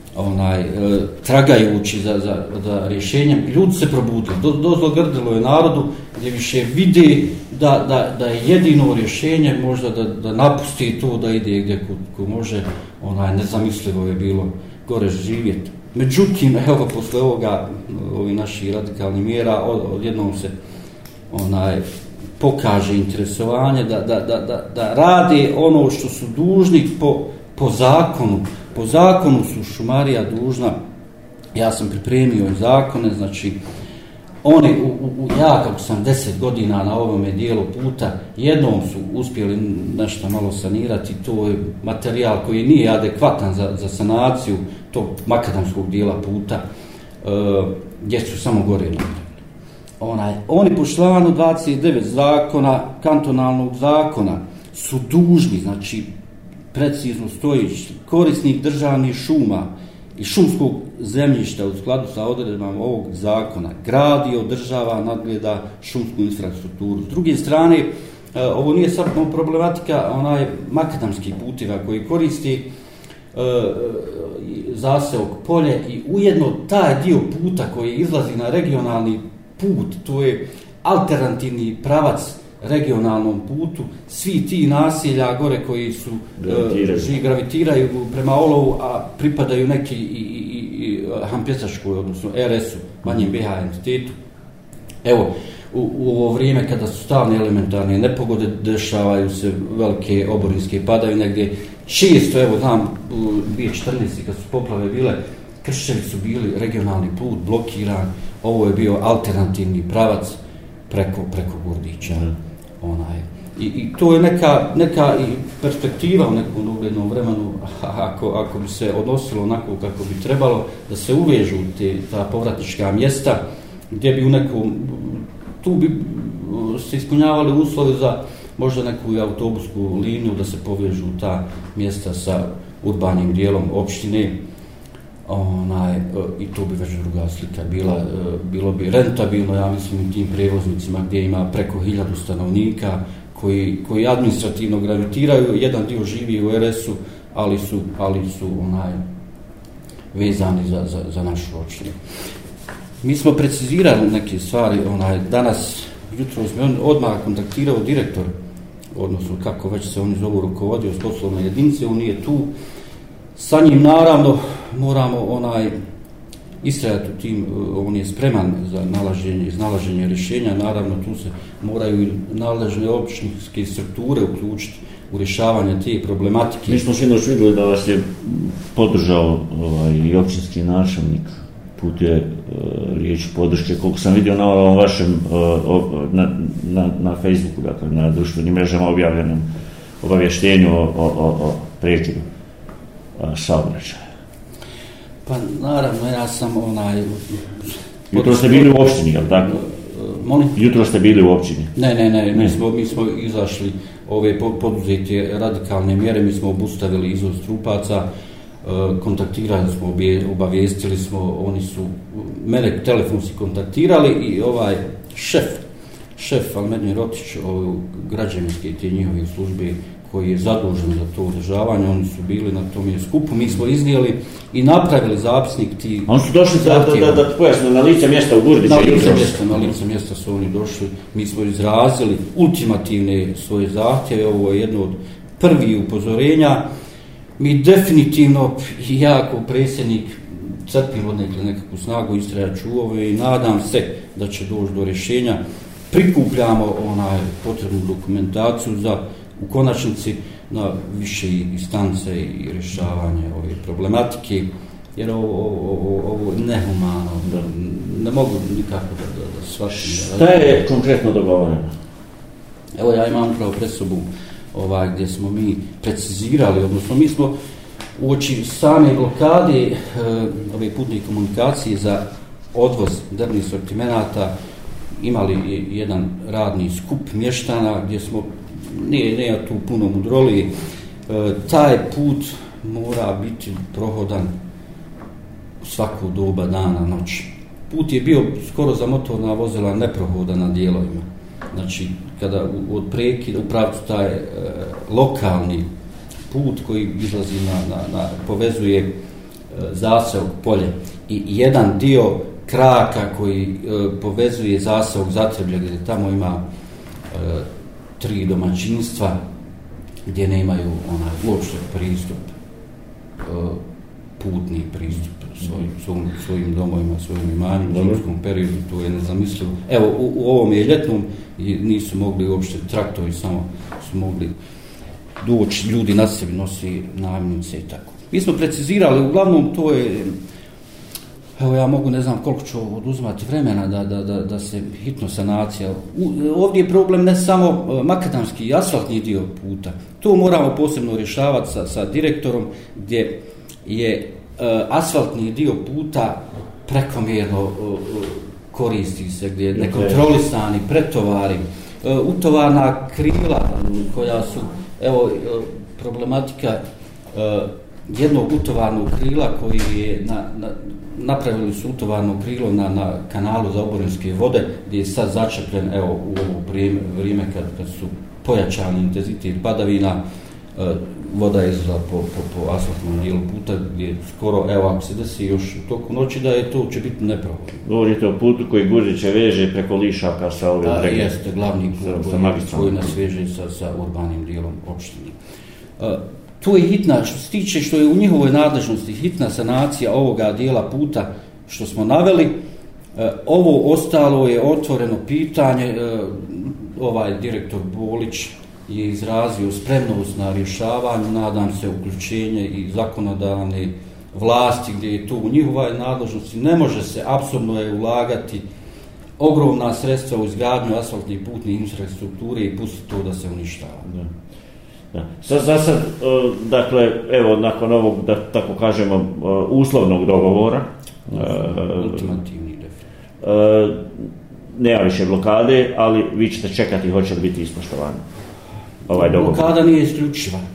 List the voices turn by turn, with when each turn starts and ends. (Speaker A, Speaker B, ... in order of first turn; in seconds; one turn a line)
Speaker A: 0.1-20.5
Speaker A: 21.3-21.8
Speaker A: 22.4-30.7
Speaker A: 31.5-33.6
Speaker A: 34.4-46.6
Speaker A: 47.2-49.4
Speaker A: 50.0-56.1
Speaker A: 56.7-72.7
Speaker A: 73.3-94.1
Speaker B: 86.4-87.1
Speaker A: 95.0-123.4
Speaker A: 123.9-134.3
Speaker A: 135.2-149.0
Speaker A: 150.1-151.9
Speaker A: 153.0-158.3
Speaker A: 158.9-162.5
Speaker A: 163.3-165.7
Speaker A: 166.6-176.8
Speaker B: 176.7-189.5
Speaker B: 190.0-192.2
Speaker B: 193.2-194.0
Speaker A: 195.2-200.6
Speaker B: 198.1-199.5
Speaker B: 200.5-201.7
Speaker A: 201.7-208.1
Speaker A: 208.6-215.6
Speaker A: 216.2-227.2
Speaker B: 226.1-229.4
Speaker A: 228.6-236.6
Speaker A: 237.4-245.4
Speaker A: 245.9-260.6
Speaker B: 259.7-261.7
Speaker A: 262.8-267.3
Speaker A: 268.0-272.0
Speaker A: 272.5-274.3
Speaker A: 275.0-280.5
Speaker A: 281.1-284.3
Speaker A: 285.6-295.6
Speaker A: 296.3-298.9
Speaker A: 299.5-306.4
Speaker A: 307.1-307.4
Speaker A: 308.0-309.1
Speaker A: 310.1-312.3
Speaker A: 313.2-313.6
Speaker A: 314.2-324.3
Speaker A: 325.2-330.1
Speaker A: 331.4-356.6
Speaker B: 349.6-349.9
Speaker A: 357.1-370.0
Speaker A: 370.6-377.6
Speaker B: 377.6-381.1
Speaker A: 380.6-385.2
Speaker B: 381.8-382.9
Speaker A: 385.8-392.3
Speaker A: 392.9-408.4
Speaker A: 409.2-413.9
Speaker B: 414.9-421.9
Speaker A: 421.1-422.8
Speaker B: 423.2-424.0
Speaker B: 424.6-428.0
Speaker B: 428.9-429.5
Speaker A: 428.9-430.4